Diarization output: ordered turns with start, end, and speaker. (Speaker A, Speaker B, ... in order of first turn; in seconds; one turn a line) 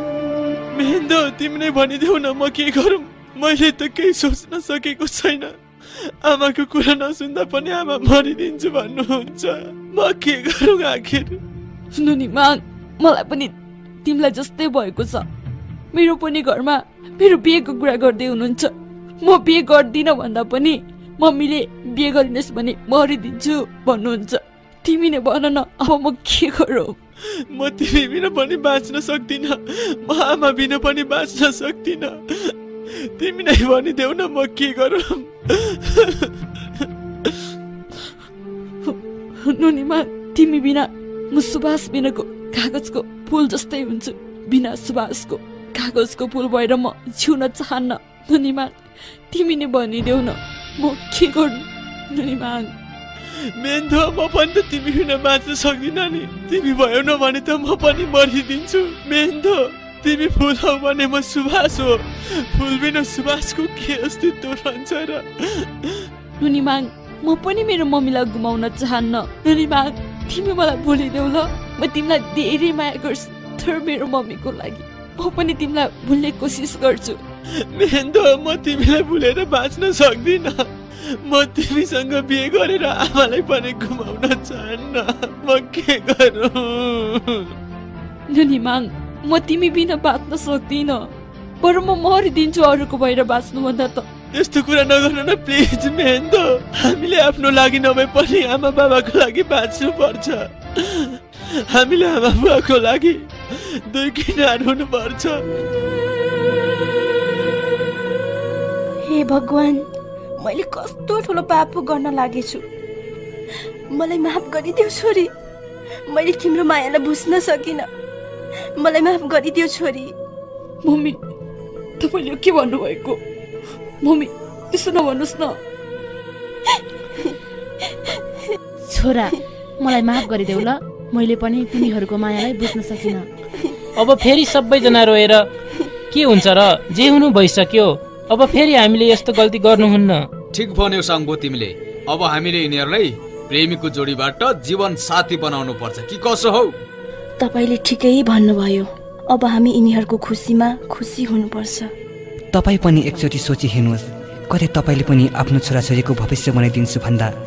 Speaker A: 0.7-5.5
Speaker A: 6.2-11.3
Speaker B: 11.9-15.2
Speaker B: 15.9-27.0
Speaker A: 27.5-32.5
Speaker A: 33.1-37.4
Speaker B: 38.8-48.8
Speaker B: 49.3-52.7
Speaker A: 53.6-66.1
Speaker B: 66.4-77.2
Speaker A: 77.7-80.6
Speaker A: 81.2-87.5
Speaker B: 88.3-91.0
Speaker B: 91.6-94.0
Speaker A: 94.3-103.2
Speaker A: 103.9-105.4
Speaker C: 109.0-109.8
Speaker C: 110.4-112.6
Speaker C: 113.9-115.3
Speaker C: 116.1-117.9
Speaker C: 118.8-120.1
Speaker B: 120.8-121.2
Speaker B: 122.0-123.2
Speaker B: 124.0-125.5
Speaker D: 128.9-133.3
Speaker E: 134.0-135.4
Speaker E: 136.1-140.2
Speaker F: 140.5-146.7
Speaker C: 147.4-151.9
Speaker G: 152.5-157.3